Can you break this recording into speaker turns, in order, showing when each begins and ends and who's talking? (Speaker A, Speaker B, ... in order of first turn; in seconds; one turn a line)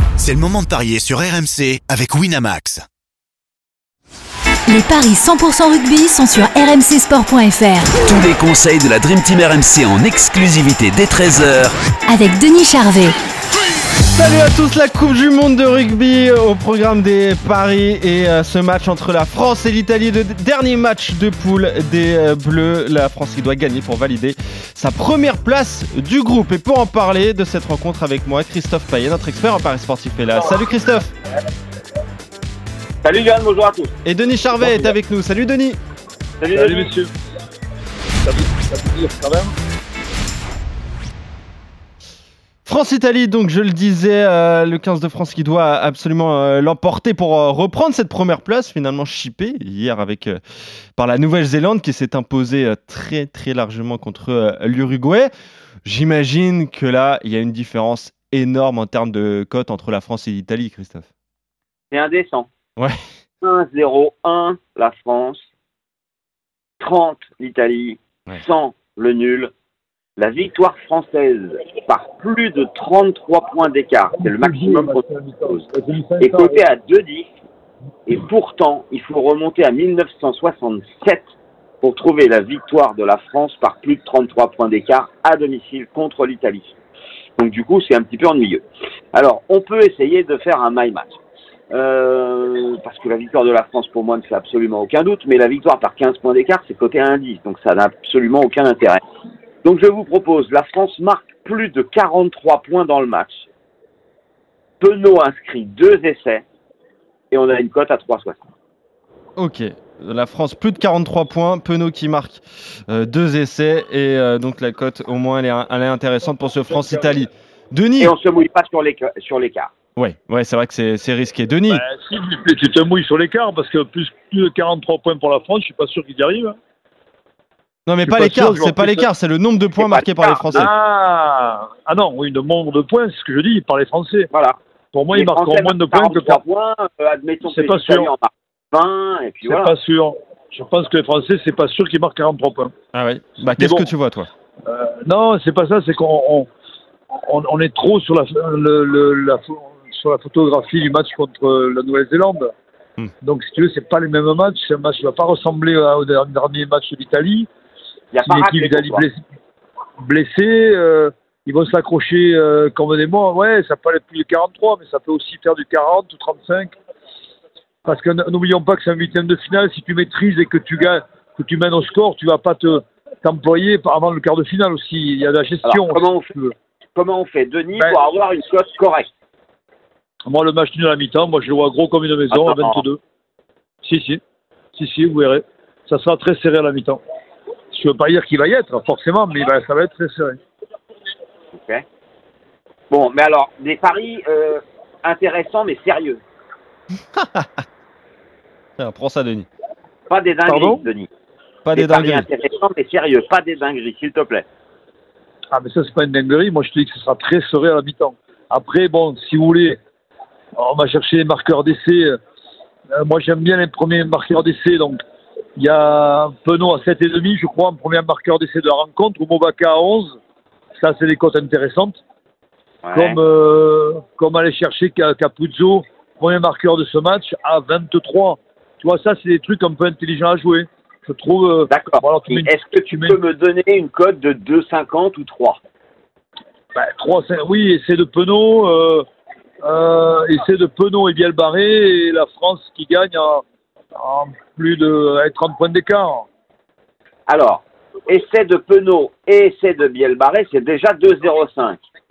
Speaker A: 0.2-2.8
Speaker B: 4.7-8.0
Speaker C: 8.0-11.8
Speaker B: 12.1-13.1
Speaker D: 14.1-31.1
Speaker E: 33.0-33.9
Speaker D: 34.0-35.8
Speaker F: 34.6-34.9
Speaker E: 36.4-36.9
Speaker F: 36.5-37.1
Speaker F: 38.2-39.5
Speaker D: 42.7-50.4
Speaker D: 51.0-55.3
Speaker D: 55.9-61.1
Speaker E: 61.9-62.5
Speaker E: 63.4-65.5
Speaker E: 66.8-69.5
Speaker E: 70.2-75.7
Speaker F: 74.2-76.6
Speaker E: 76.2-77.3
Speaker E: 78.1-81.3
Speaker E: 81.8-86.8
Speaker E: 87.4-91.2
Speaker E: 91.7-99.0
Speaker E: 99.6-103.5
Speaker E: 104.8-106.4
Speaker E: 107.3-108.4
Speaker D: 109.4-118.2
Speaker E: 118.0-119.7
Speaker D: 120.0-121.8
Speaker F: 121.7-126.6
Speaker D: 127.9-130.7
Speaker F: 128.1-129.1
Speaker E: 129.8-130.7
Speaker F: 130.5-134.3
Speaker E: 134.3-134.6
Speaker F: 134.9-136.4
Speaker E: 135.1-139.7
Speaker F: 137.4-138.1
Speaker F: 139.4-142.7
Speaker D: 142.9-144.3
Speaker F: 143.6-143.9
Speaker F: 144.7-146.5
Speaker F: 147.2-152.5
Speaker F: 153.2-157.5
Speaker E: 158.1-159.0
Speaker F: 158.2-159.2
Speaker F: 160.0-166.7
Speaker F: 167.9-176.5
Speaker E: 175.6-176.3
Speaker E: 176.9-179.1
Speaker F: 180.3-183.0
Speaker E: 182.3-182.8
Speaker F: 183.8-184.2
Speaker F: 184.8-187.0
Speaker F: 187.7-190.4
Speaker E: 191.5-191.8
Speaker E: 192.9-196.2
Speaker D: 197.2-197.5
Speaker D: 198.8-199.5
Speaker E: 200.1-201.1
Speaker F: 200.5-200.8
Speaker D: 201.7-202.3
Speaker E: 201.7-204.5
Speaker F: 205.5-209.8
Speaker F: 210.6-212.2
Speaker F: 212.9-215.0
Speaker F: 215.6-220.2
Speaker F: 220.8-222.0
Speaker E: 222.8-223.2
Speaker F: 222.9-233.2
Speaker E: 231.7-235.6
Speaker F: 236.7-239.1
Speaker F: 239.6-243.4
Speaker F: 244.0-246.3
Speaker E: 247.3-251.8